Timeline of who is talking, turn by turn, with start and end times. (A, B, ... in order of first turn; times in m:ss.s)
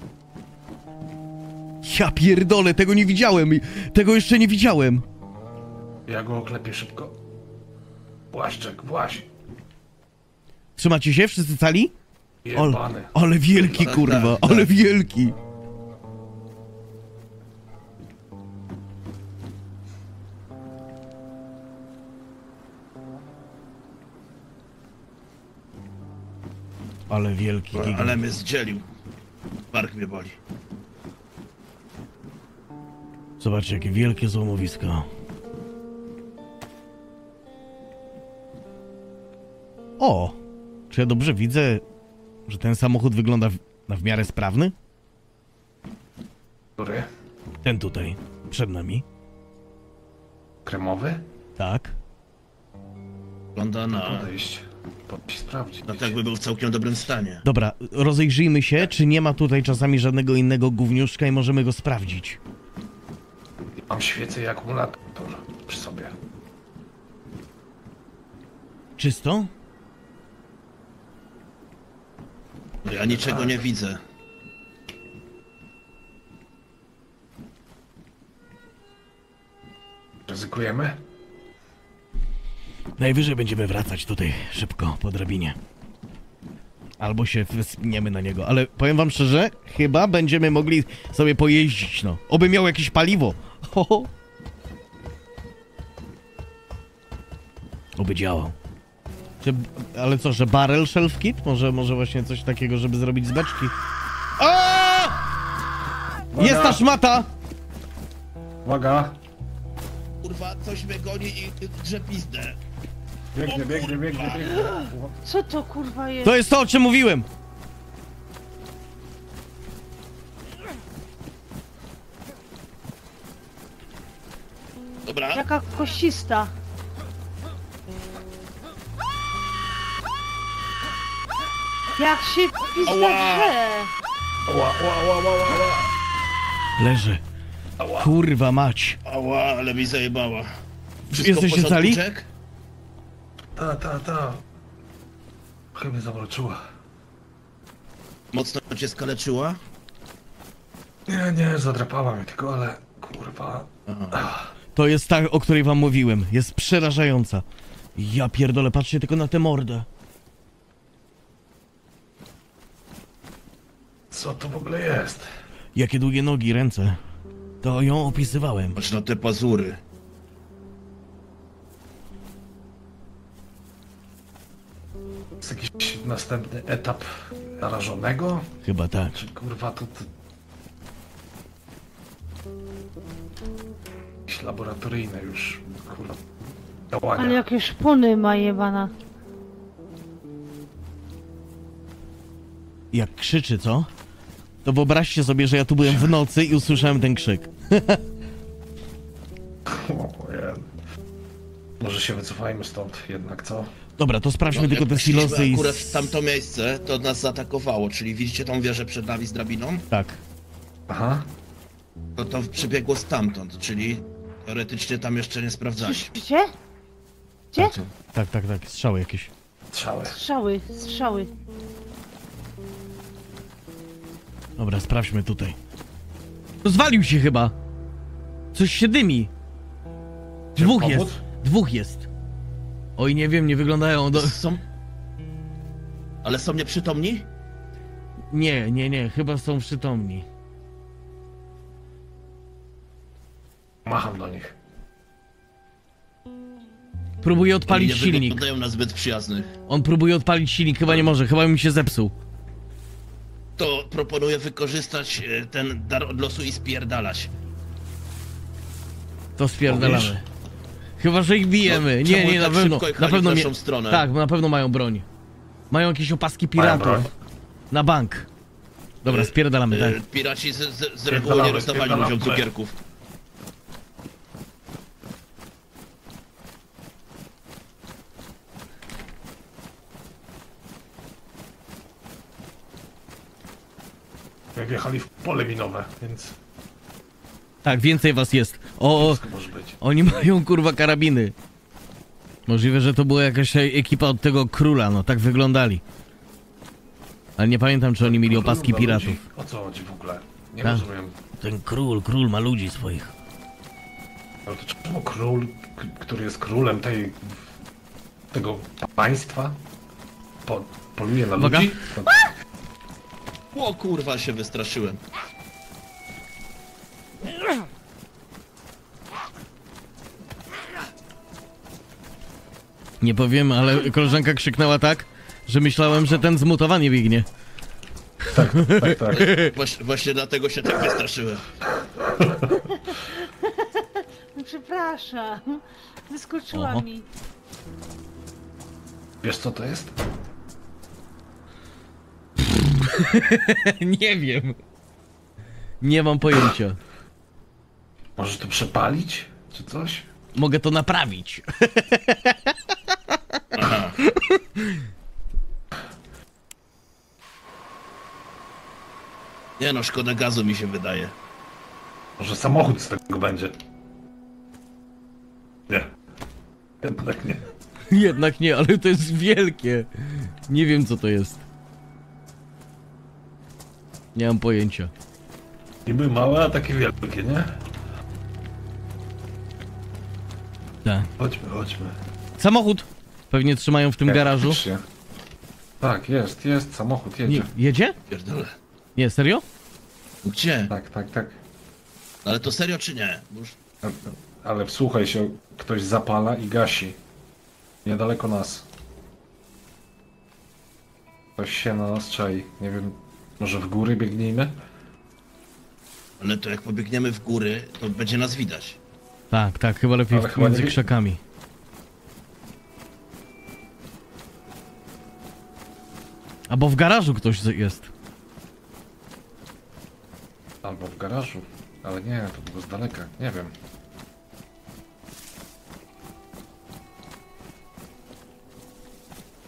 0:01.8-0:05.0 A
0:06.1-0:07.2 B
0:08.3-0:09.3 B
0:10.8-0:11.9 A
0:12.4-0:13.1 B
0:12.5-0:15.4 A
0:13.6-0:14.7 C
0:27.1-0:28.2 A
0:27.7-0:28.9 C
0:29.7-0:30.4 C
0:33.4-0:35.1 A
0:40.0-0:40.4 A
0:40.9-0:41.8 A
0:42.5-0:44.7 A
0:46.8-0:47.1 B
0:47.6-0:49.0 A
0:50.6-0:51.2 B
0:51.6-0:51.9 A
0:53.6-0:54.3 C
0:54.0-0:56.2 B
0:55.8-0:57.4 C
0:57.4-1:02.4 A
1:03.9-1:06.2 B
1:09.0-1:09.5 A
1:12.8-1:14.0 C
1:12.9-1:13.6 B
1:20.3-1:21.0 B
1:23.0-1:25.6 A
1:27.0-1:34.1 A
1:38.0-1:38.6 A
1:39.4-1:43.7 A
1:44.4-1:45.2 A
1:46.3-1:46.9 B
1:46.4-1:47.3 A
1:48.6-1:49.2 B
1:50.2-1:52.6 C
1:53.3-1:55.2 B
1:53.4-1:54.8 C
1:55.2-1:56.4 D
1:56.2-1:57.3 A
2:05.1-2:05.5 C
2:05.3-2:06.5 D
2:12.0-2:13.9 D
2:12.8-2:13.6 C
2:14.5-2:15.9 B
2:16.8-2:17.2 A
2:17.8-2:18.1 B
2:18.0-2:19.0 A
2:19.0-2:20.5 C
2:21.1-2:22.0 A
2:21.1-2:22.3 C
2:23.6-2:24.4 B
2:25.7-2:26.6 B
2:28.3-2:29.6 C
2:31.1-2:34.5 B
2:33.9-2:34.2 C
2:34.8-2:37.4 A
2:38.0-2:39.9 A
2:44.1-2:45.3 B
2:45.8-2:47.0 A
2:47.6-2:48.8 A
2:48.8-2:49.8 C
2:55.4-2:58.4 B
2:58.6-2:59.2 A
2:59.1-3:00.1 B
3:04.3-3:06.2 B
3:06.9-3:07.4 B
3:07.2-3:08.9 D
3:12.9-3:13.9 A
3:14.6-3:18.0 A
3:15.8-3:16.1 B
3:19.7-3:20.7 B
3:21.8-3:23.7 B
3:24.0-3:26.1 A
3:24.5-3:29.8 C
3:29.9-3:30.2 A
3:30.9-3:31.3 B
3:32.2-3:36.1 C
3:35.8-3:36.5 D
3:37.5-3:37.8 D
3:37.6-3:37.9 C
3:38.1-3:39.3 A
3:39.7-3:40.2 B
3:40.1-3:41.3 D
3:44.6-3:45.6 A
3:46.6-3:47.5 A
3:48.5-3:49.3 A
3:50.6-3:51.2 B
3:50.6-3:52.1 A
3:53.0-3:54.4 A
3:54.1-3:54.6 C
3:56.2-3:57.3 C
3:58.3-4:00.3 A
4:03.8-4:04.5 B
4:07.2-4:08.4 A
4:07.7-4:09.5 C
4:09.7-4:12.1 A
4:13.6-4:17.3 C
4:19.4-4:20.2 A
4:19.7-4:20.1 B
4:21.0-4:25.1 A
4:21.6-4:24.1 C
4:25.7-4:27.1 A
4:26.6-4:27.1 B
4:27.7-4:28.3 A
4:29.0-4:30.0 A
4:29.1-4:32.8 C
4:31.1-4:32.5 B
4:44.6-4:46.4 B
4:47.6-4:49.2 A
4:48.9-4:49.8 B
4:49.8-4:51.3 A
4:52.5-4:55.8 A
4:57.4-4:59.2 A
4:58.0-5:01.2 B
5:01.4-5:03.1 A
5:04.5-5:07.4 B
5:08.3-5:09.6 B
5:10.5-5:12.2 B
5:11.4-5:11.7 A
5:13.5-5:15.0 C
5:23.0-5:27.3 A
5:28.3-5:29.3 B
5:28.6-5:29.5 A
5:29.1-5:31.5 C
5:34.4-5:37.1 D
5:36.5-5:36.8 A
5:39.2-5:40.0 B
5:42.8-5:44.6 A
5:45.8-5:46.8 A
5:48.2-5:50.1 B
5:50.4-5:52.5 A
5:53.6-5:54.0 C
5:54.0-5:54.8 A
5:59.6-6:01.2 C
6:02.2-6:03.6 B
6:06.8-6:07.5 B
6:07.9-6:11.4 A
6:14.2-6:14.9 A
6:15.9-6:17.6 B
6:21.2-6:22.0 B
6:22.4-6:24.6 A
6:24.1-6:24.8 B
6:25.8-6:27.5 B
6:27.3-6:28.0 A
6:28.1-6:28.6 C
6:29.0-6:29.4 A
6:30.2-6:30.7 C
6:30.7-6:31.4 B
6:32.2-6:33.6 C
6:33.8-6:37.0 B
6:37.8-6:38.7 B
6:41.4-6:44.6 B
6:46.2-6:48.8 C
6:49.3-6:51.2 A
6:50.1-6:50.9 B
6:56.5-6:57.9 A
7:00.6-7:03.5 B